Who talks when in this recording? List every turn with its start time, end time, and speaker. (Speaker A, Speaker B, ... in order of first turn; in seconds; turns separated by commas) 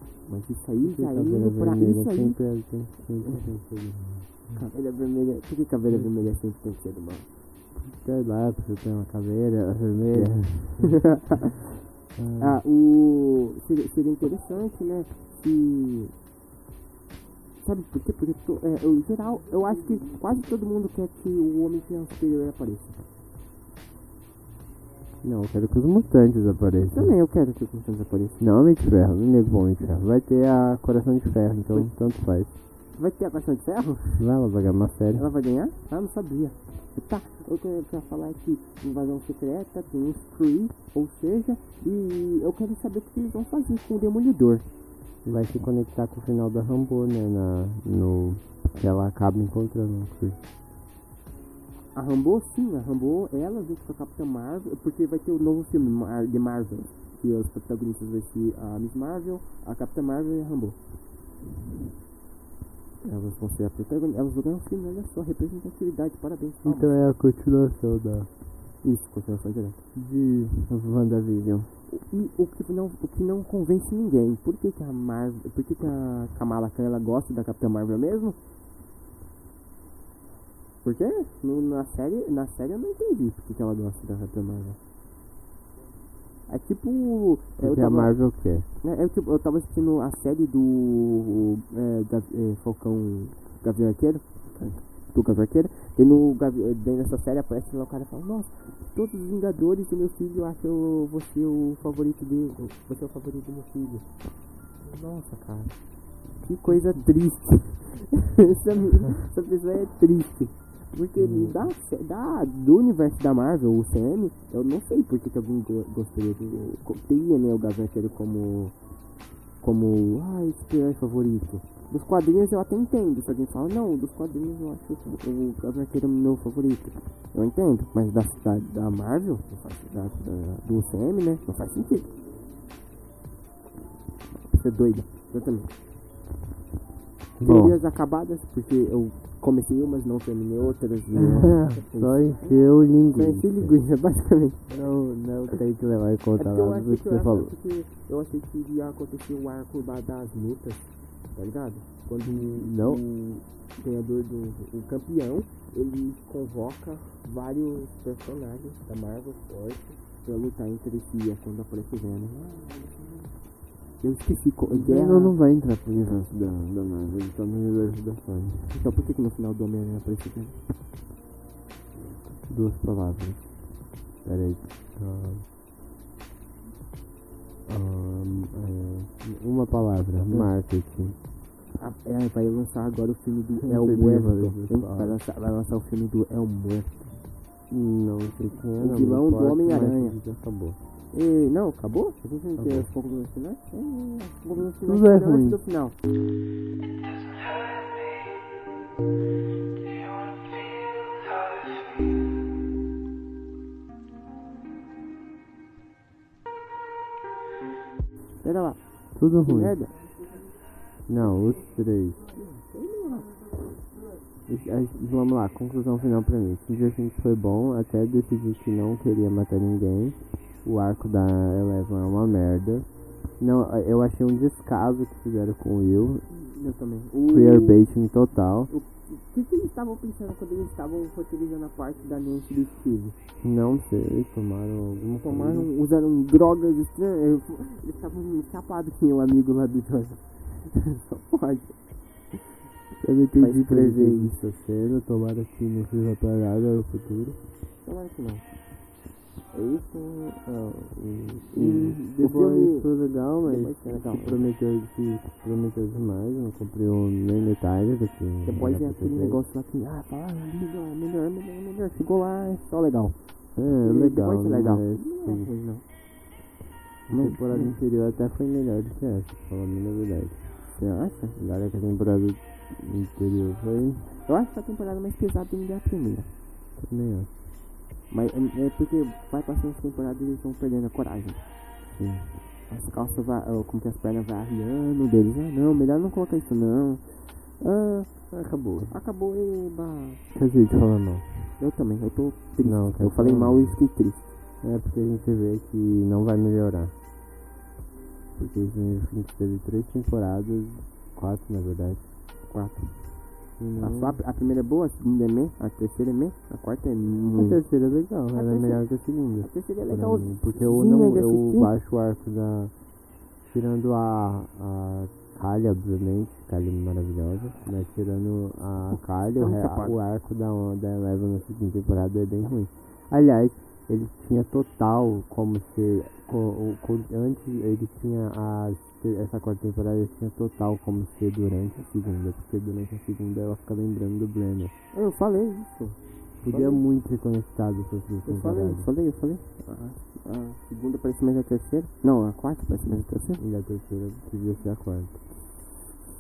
Speaker A: 0.2-2.7, Speaker B: 0.8-4.3, Speaker A: 4.5-7.3, Speaker B: 5.9-6.1, Speaker B: 7.7-11.2, Speaker A: 10.1-11.0, Speaker B: 12.2-12.6, Speaker A: 12.4-16.1, Speaker A: 17.6-23.0, Speaker B: 25.2-27.1, Speaker A: 26.9-28.4, Speaker B: 28.4-32.5, Speaker A: 32.9-34.3, Speaker B: 34.2-35.3, Speaker A: 35.1-44.7, Speaker B: 45.2-50.4, Speaker A: 51.9-60.8, Speaker A: 63.0-66.9, Speaker B: 66.6-68.3, Speaker A: 68.8-69.8, Speaker B: 70.0-71.7, Speaker A: 71.9-78.4, Speaker A: 80.8-84.8, Speaker A: 86.5-118.8, Speaker B: 87.6-88.7, Speaker B: 111.2-111.6, Speaker A: 119.6-132.1, Speaker A: 134.4-135.7, Speaker B: 137.4-137.8, Speaker A: 137.4-144.8, Speaker B: 141.4-143.8, Speaker B: 144.7-147.5, Speaker A: 146.3-163.4, Speaker B: 152.2-153.0, Speaker A: 164.0-165.4, Speaker B: 164.7-168.8, Speaker A: 168.7-170.6, Speaker B: 172.3-175.5, Speaker B: 177.7-181.2, Speaker A: 181.8-187.2, Speaker B: 183.7-185.2, Speaker B: 187.7-190.8, Speaker A: 188.8-190.2, Speaker A: 191.1-196.0, Speaker B: 192.6-192.9, Speaker B: 194.8-195.6, Speaker A: 208.4-210.0, Speaker B: 209.1-209.8, Speaker B: 211.1-212.3, Speaker A: 212.3-213.3, Speaker B: 214.5-226.2, Speaker A: 226.3-227.9, Speaker B: 227.3-228.7, Speaker A: 228.7-233.2, Speaker B: 233.4-235.7, Speaker A: 235.2-242.4, Speaker B: 243.0-247.4, Speaker A: 243.4-244.4, Speaker A: 247.8-248.4, Speaker A: 249.5-254.5, Speaker B: 251.5-259.4, Speaker A: 258.4-265.8, Speaker B: 263.6-265.5, Speaker B: 267.1-270.8, Speaker A: 267.1-267.8, Speaker A: 270.8-271.4, Speaker B: 271.4-274.1, Speaker A: 274.2-276.3, Speaker B: 276.8-277.3, Speaker A: 278.1-281.5, Speaker B: 281.9-282.4, Speaker A: 282.7-288.3, Speaker B: 288.3-288.9, Speaker A: 288.9-290.2, Speaker B: 290.3-291.5, Speaker A: 291.6-294.3, Speaker B: 292.6-293.9, Speaker B: 294.6-296.9, Speaker B: 298.4-302.1, Speaker A: 302.5-307.6, Speaker B: 303.6-304.2, Speaker B: 307.3-312.8, Speaker A: 308.3-311.7, Speaker B: 313.4-334.7, Speaker A: 319.4-320.0, Speaker A: 334.9-336.8, Speaker B: 336.4-338.9, Speaker A: 338.2-343.4, Speaker B: 343.4-345.2